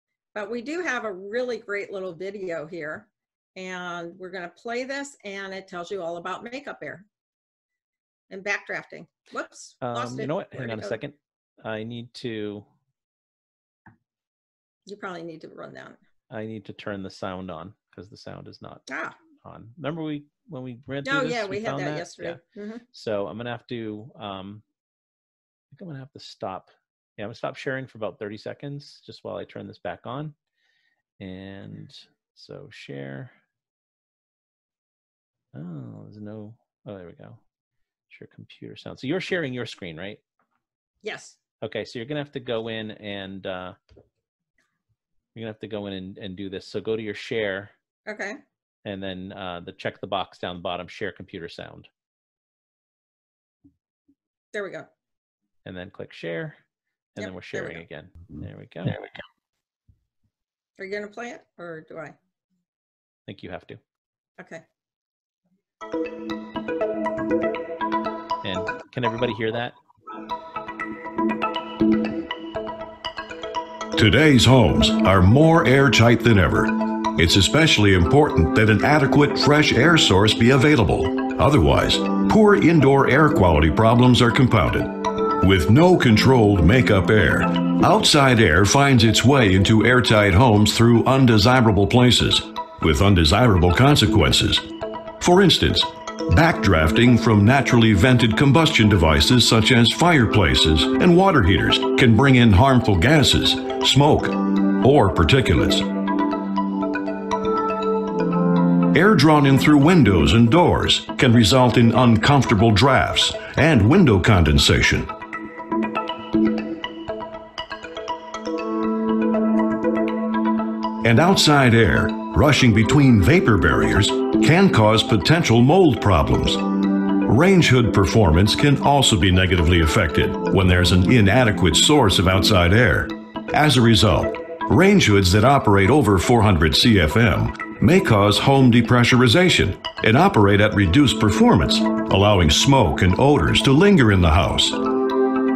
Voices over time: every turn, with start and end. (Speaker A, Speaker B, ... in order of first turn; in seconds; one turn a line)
Speaker A: 0.3-7.1
Speaker A: 8.3-11.0
Speaker B: 9.8-12.7
Speaker A: 14.9-16.0
Speaker B: 16.3-18.9
Speaker A: 18.9-19.2
Speaker B: 19.4-22.4
Speaker A: 21.1-22.8
Speaker B: 22.9-24.6
Speaker B: 25.7-30.4
Speaker B: 31.2-33.3
Speaker B: 35.5-37.4
Speaker B: 38.1-40.2
Speaker A: 41.0-41.4
Speaker B: 41.6-43.8
Speaker B: 45.4-47.7
Speaker A: 48.1-48.4
Speaker B: 48.9-51.9
Speaker A: 54.5-54.9
Speaker B: 55.6-56.6
Speaker B: 57.1-59.0
Speaker A: 57.2-57.8
Speaker A: 60.8-62.2
Speaker B: 63.3-63.8
Speaker A: 64.4-64.6
Speaker B: 68.4-69.8
Speaker C: 73.9-105.9
Speaker C: 108.9-115.2
Speaker C: 121.0-145.0